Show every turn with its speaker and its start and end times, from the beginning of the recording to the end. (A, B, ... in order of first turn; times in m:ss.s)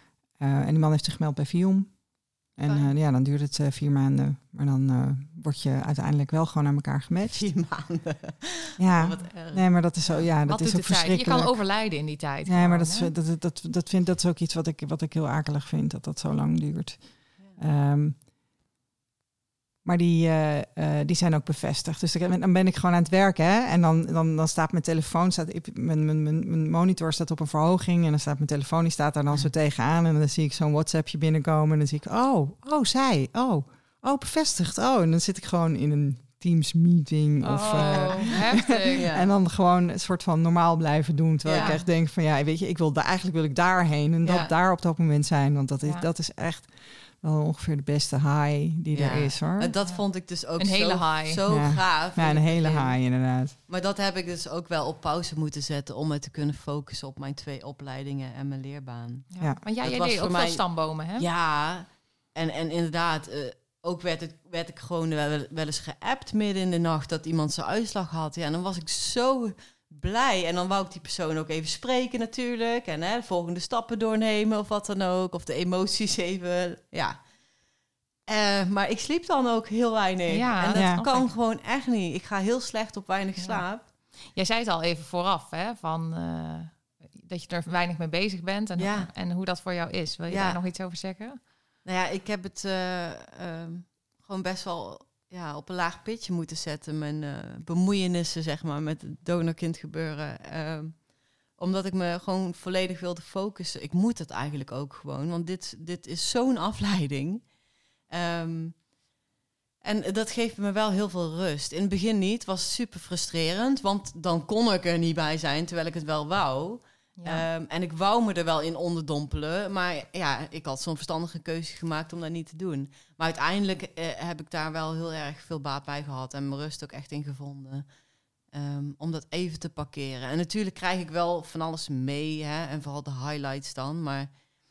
0:00.4-0:01.9 A
0:02.6-0:07.4 A
0:02.7-0:02.9 B
0:07.3-0:09.7 B
0:08.8-0:11.6 A
0:10.0-0:13.1 C
0:12.5-0:18.2 A
0:19.8-0:49.7 A
0:37.4-0:39.3 B
0:37.7-0:39.1 C
0:41.4-0:41.8 B
0:41.6-0:41.8 C
0:44.2-0:44.5 C
0:48.9-0:53.0 B
0:50.6-0:51.4 C
0:51.5-0:53.6 A
0:53.7-0:59.3 B
0:59.3-1:01.3 C
0:59.8-1:17.2 B
1:18.3-1:23.8 B
1:20.3-1:21.3 C
1:20.7-1:21.0 A
1:23.4-1:31.4 C
1:28.8-1:29.1 B
1:30.3-1:30.6 B
1:31.8-1:47.5 B
1:48.1-1:48.8 B
1:49.8-2:07.9 B
1:57.2-1:57.5 C
2:08.5-2:14.3 B